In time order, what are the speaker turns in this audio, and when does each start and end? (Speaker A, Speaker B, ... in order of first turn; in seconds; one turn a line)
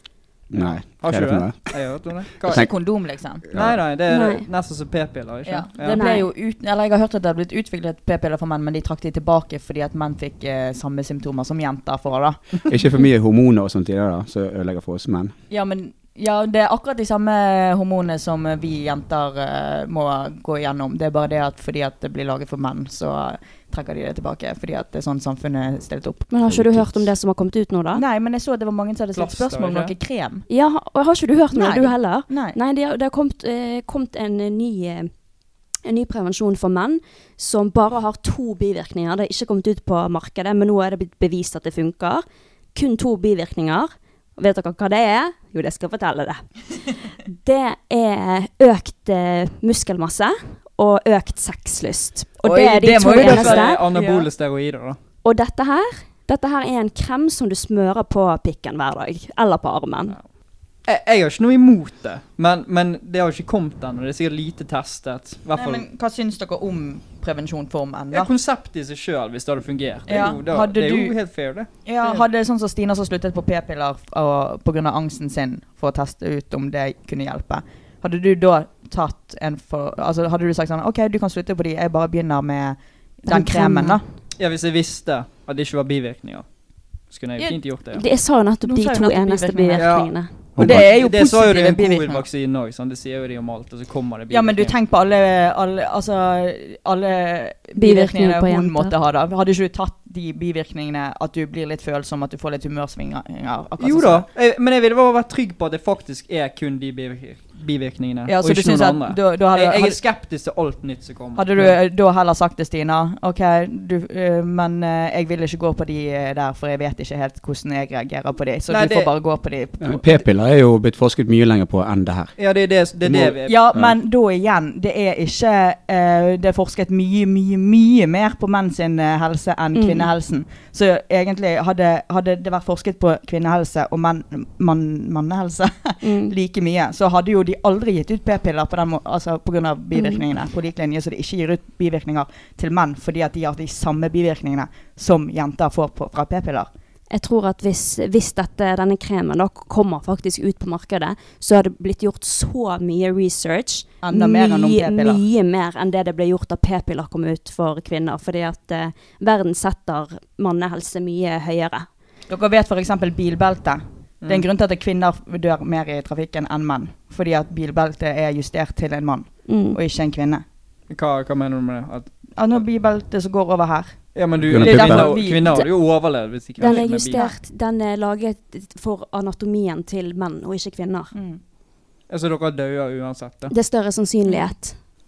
Speaker A: 0.5-2.7
Speaker B: 0.5-2.7
Speaker C: 2.5-3.5
Speaker A: 3.5-3.8
Speaker B: 3.5-6.0
Speaker D: 4.1-4.5
Speaker C: 5.5-12.4
Speaker D: 5.9-6.3
Speaker A: 12.7-15.3
Speaker C: 15.5-26.3
Speaker D: 26.3-28.0
Speaker A: 26.5-27.1
Speaker C: 27.9-30.4
Speaker B: 29.1-29.9
Speaker D: 30.5-35.1
Speaker C: 31.5-32.6
Speaker D: 35.9-46.4
Speaker D: 47.4-53.9
Speaker C: 52.4-54.3
Speaker B: 53.1-55.0
Speaker D: 55.2-60.2
Speaker B: 60.9-65.8
Speaker C: 65.6-68.3
Speaker B: 68.1-72.2
Speaker C: 70.1-71.2
Speaker C: 71.8-84.0
Speaker D: 83.3-84.0
Speaker B: 84.4-86.5
Speaker B: 87.1-88.0
Speaker D: 87.9-90.5
Speaker C: 88.6-92.2
Speaker B: 89.8-94.8
Speaker A: 90.6-90.9
Speaker C: 94.3-104.3
Speaker D: 97.8-98.9
Speaker B: 103.8-111.8
Speaker C: 108.3-110.0
Speaker C: 111.3-120.0
Speaker B: 118.7-119.1
Speaker A: 119.8-122.3
Speaker B: 122.4-123.6
Speaker A: 123.0-123.9
Speaker C: 123.5-146.7
Speaker D: 129.8-130.1
Speaker D: 136.0-136.3
Speaker D: 139.9-140.2
Speaker D: 147.1-161.9
Speaker C: 154.0-155.2
Speaker C: 162.3-170.4
Speaker D: 169.4-169.8
Speaker B: 170.9-172.6
Speaker C: 172.4-175.6
Speaker B: 174.1-177.2
Speaker A: 174.4-175.3
Speaker D: 175.4-181.1
Speaker C: 176.6-177.4
Speaker C: 181.1-181.4
Speaker B: 182.1-183.5
Speaker D: 183.5-184.8